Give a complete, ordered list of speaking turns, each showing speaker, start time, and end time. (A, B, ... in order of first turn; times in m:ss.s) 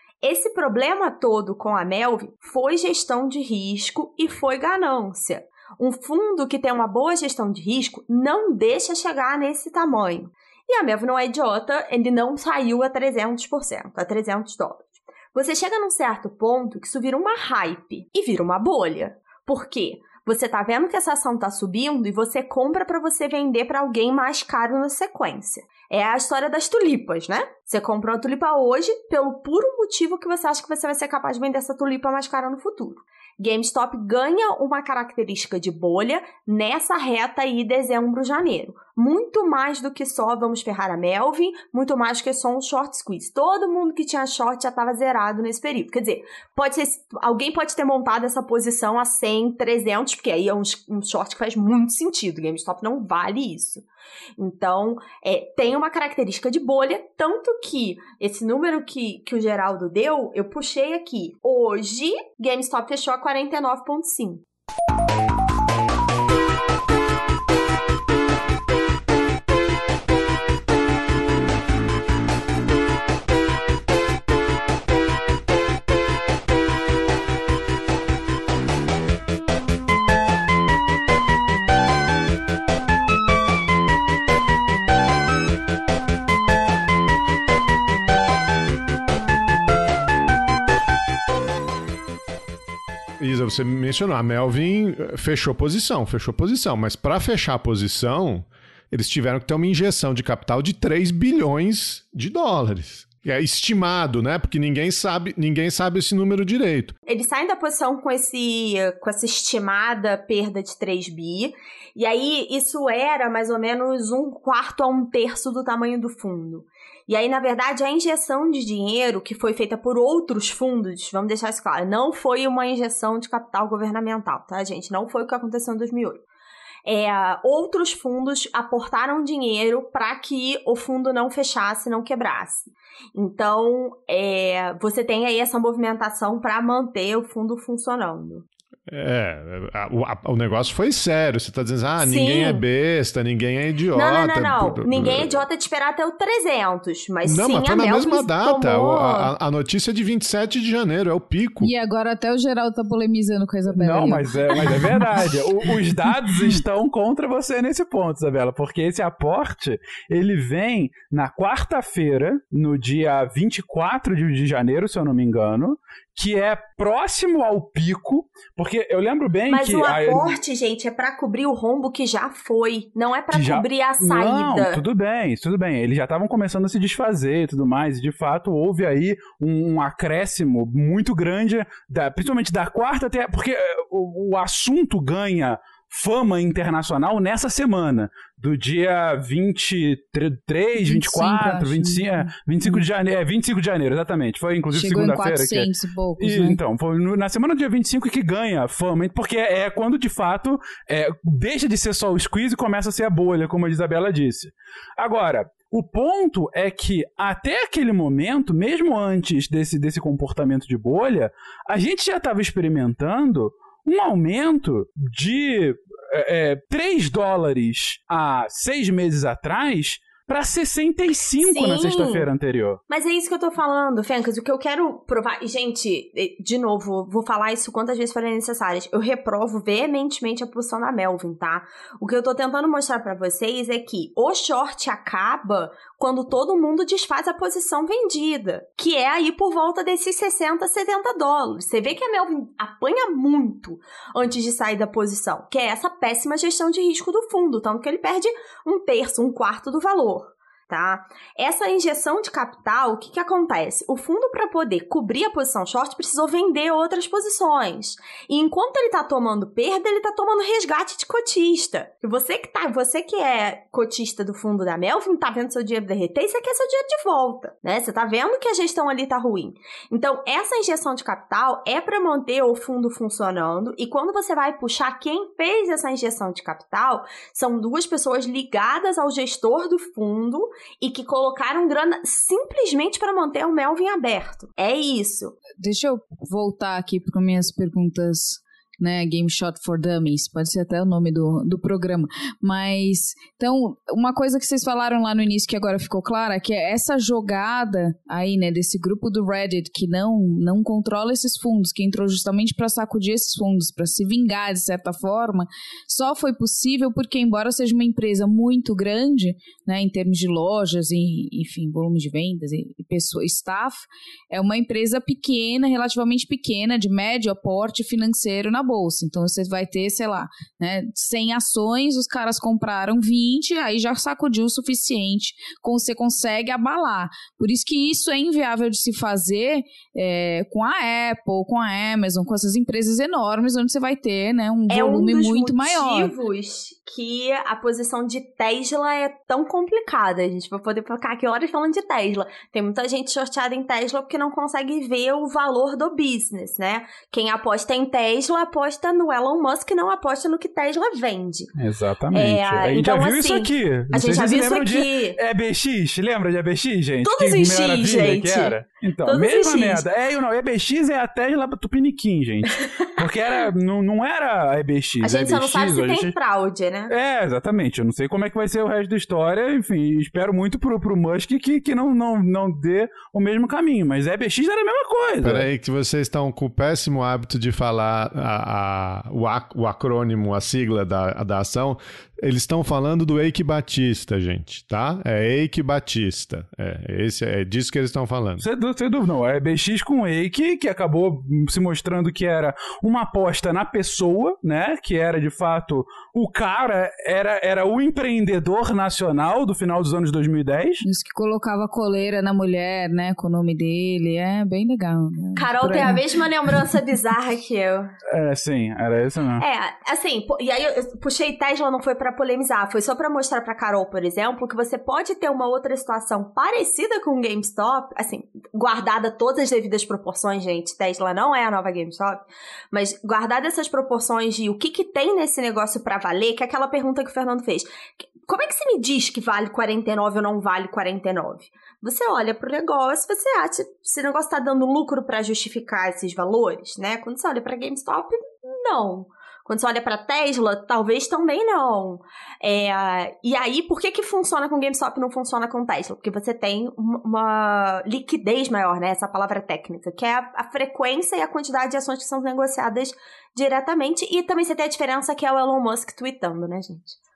0:00.2-0:53.8 A
0:54.4-1:04.4 A
1:33.2-1:47.0 B
1:47.1-2:06.2 A
2:06.8-2:18.4 A
2:18.9-2:25.5 B
2:22.0-2:22.6 A
2:23.9-2:29.3 A
2:27.2-2:31.7 B
2:31.6-2:35.4 C
2:33.7-2:50.4 D
2:49.5-2:54.8 A
2:53.3-3:42.8 D
3:10.8-3:12.8 C
3:14.7-3:16.6 C
3:41.5-3:42.3 A
3:42.9-4:45.4 A
4:45.6-5:36.1 C
5:34.7-5:51.5 A
5:51.6-6:06.1 D
5:52.1-5:55.2 A
5:57.0-5:59.8 A
6:05.0-6:06.9 A
6:06.9-6:15.5 D
6:15.2-6:28.4 B
6:28.4-6:40.8 D
6:40.8-6:46.0 C
6:45.4-6:47.9 A
6:48.1-6:49.4 D
6:49.4-7:37.0 A